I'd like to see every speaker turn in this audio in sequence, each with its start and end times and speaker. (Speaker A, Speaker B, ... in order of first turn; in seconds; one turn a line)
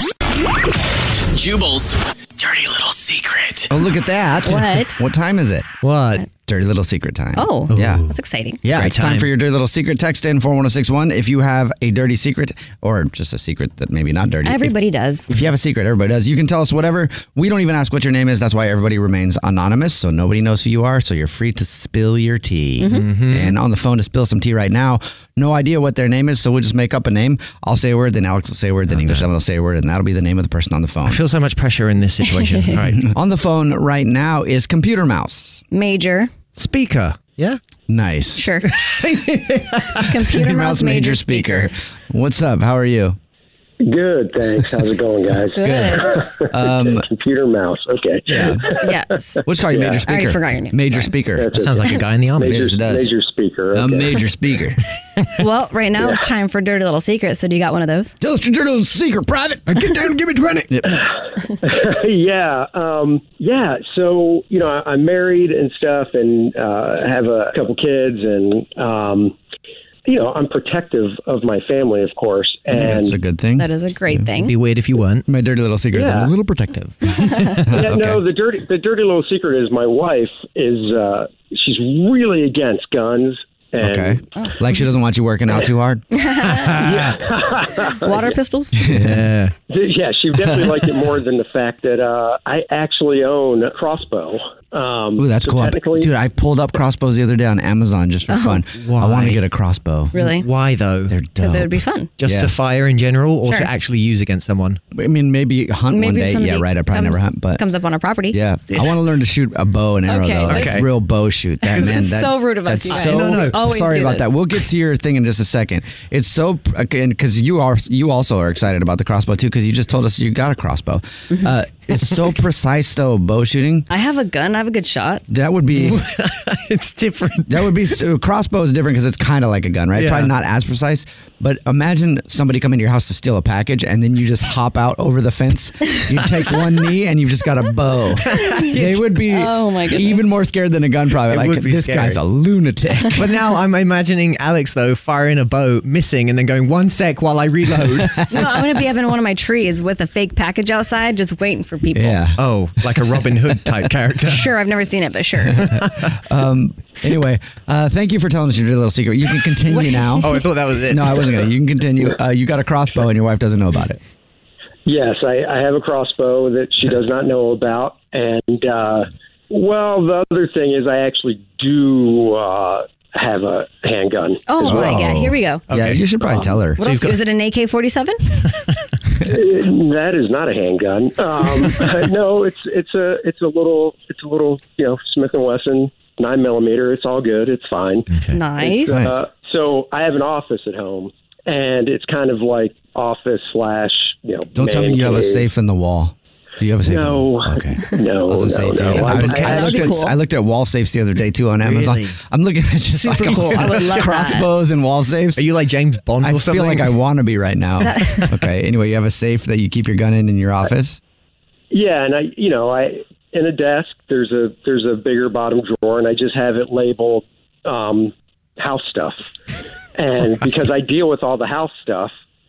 Speaker A: 1.3-3.7
Speaker B: 3.7-5.7
Speaker C: 4.4-5.0
Speaker D: 5.8-6.2
Speaker B: 6.5-8.0
Speaker C: 7.3-8.6
Speaker D: 7.7-8.1
Speaker B: 8.6-14.7
Speaker D: 8.7-9.3
Speaker C: 14.4-15.3
Speaker B: 15.3-31.2
Speaker C: 22.8-23.1
Speaker D: 22.9-23.5
Speaker D: 28.9-29.3
Speaker D: 31.1-33.0
Speaker C: 32.3-32.7
Speaker B: 33.0-35.6
Speaker C: 35.7-36.3
Speaker D: 36.5-37.6
Speaker B: 37.9-38.5
Speaker C: 38.4-38.7
Speaker D: 38.8-40.0
Speaker C: 40.0-41.7
Speaker B: 40.3-43.2
Speaker E: 43.8-48.9
Speaker C: 45.5-46.1
Speaker B: 45.6-47.0
Speaker B: 48.3-48.6
Speaker C: 48.8-49.4
Speaker B: 49.5-51.5
Speaker E: 49.7-50.0
Speaker C: 50.0-51.1
Speaker E: 51.3-54.1
Speaker D: 51.5-52.7
Speaker B: 52.4-53.1
Speaker B: 53.7-54.8
Speaker C: 55.4-58.1
Speaker B: 58.2-59.8
Speaker D: 59.7-60.7
Speaker E: 61.6-69.3
Speaker E: 70.0-73.2
Speaker B: 72.7-74.3
Speaker C: 73.6-74.5
Speaker D: 74.4-75.2
Speaker B: 75.2-77.1
Speaker E: 75.9-76.3
Speaker B: 77.7-78.2
Speaker E: 77.7-84.2
Speaker B: 83.8-86.0
Speaker C: 86.1-86.8
Speaker D: 86.5-87.2
Speaker E: 86.8-88.3
Speaker C: 88.0-88.8
Speaker B: 88.8-89.2
Speaker D: 88.9-89.5
Speaker E: 89.7-96.1
Speaker B: 90.4-90.8
Speaker B: 95.2-100.1
Speaker C: 98.3-98.6
Speaker D: 98.7-99.4
Speaker C: 100.1-100.5
Speaker D: 100.1-101.1
Speaker B: 101.1-102.5
Speaker C: 101.4-102.1
Speaker D: 102.2-104.8
Speaker B: 104.9-107.6
Speaker C: 105.9-108.4
Speaker B: 108.3-123.9
Speaker C: 110.1-110.8
Speaker D: 110.5-110.9
Speaker C: 111.6-114.3
Speaker D: 111.7-112.0
Speaker D: 112.9-113.6
Speaker C: 123.9-125.2
Speaker B: 125.3-126.0
Speaker D: 125.8-127.7
Speaker B: 127.5-143.2
Speaker D: 129.9-130.3
Speaker D: 138.3-139.0
Speaker C: 138.4-140.2
Speaker D: 141.2-142.2
Speaker D: 143.2-148.2
Speaker B: 147.8-148.7
Speaker C: 148.3-152.2
Speaker B: 151.9-152.4
Speaker D: 152.4-154.5
Speaker C: 154.2-155.7
Speaker D: 155.6-156.0
Speaker B: 155.7-160.3
Speaker C: 159.7-160.4
Speaker D: 160.2-161.4
Speaker B: 160.9-164.0
Speaker E: 164.8-174.4
Speaker C: 174.5-175.6
Speaker B: 174.6-176.8
Speaker D: 174.7-175.1
Speaker D: 175.7-177.2
Speaker C: 176.8-178.5
Speaker E: 179.2-195.5
Speaker D: 188.1-188.4
Speaker C: 188.3-188.9
Speaker B: 188.9-189.2
Speaker B: 194.5-205.4
Speaker E: 196.8-199.8
Speaker D: 199.0-199.5
Speaker C: 199.1-200.1
Speaker D: 201.6-202.1
Speaker D: 203.0-204.3
Speaker C: 203.0-204.4
Speaker D: 205.3-206.9
Speaker B: 206.2-211.0
Speaker C: 207.8-208.3
Speaker E: 211.7-219.2
Speaker E: 219.9-222.1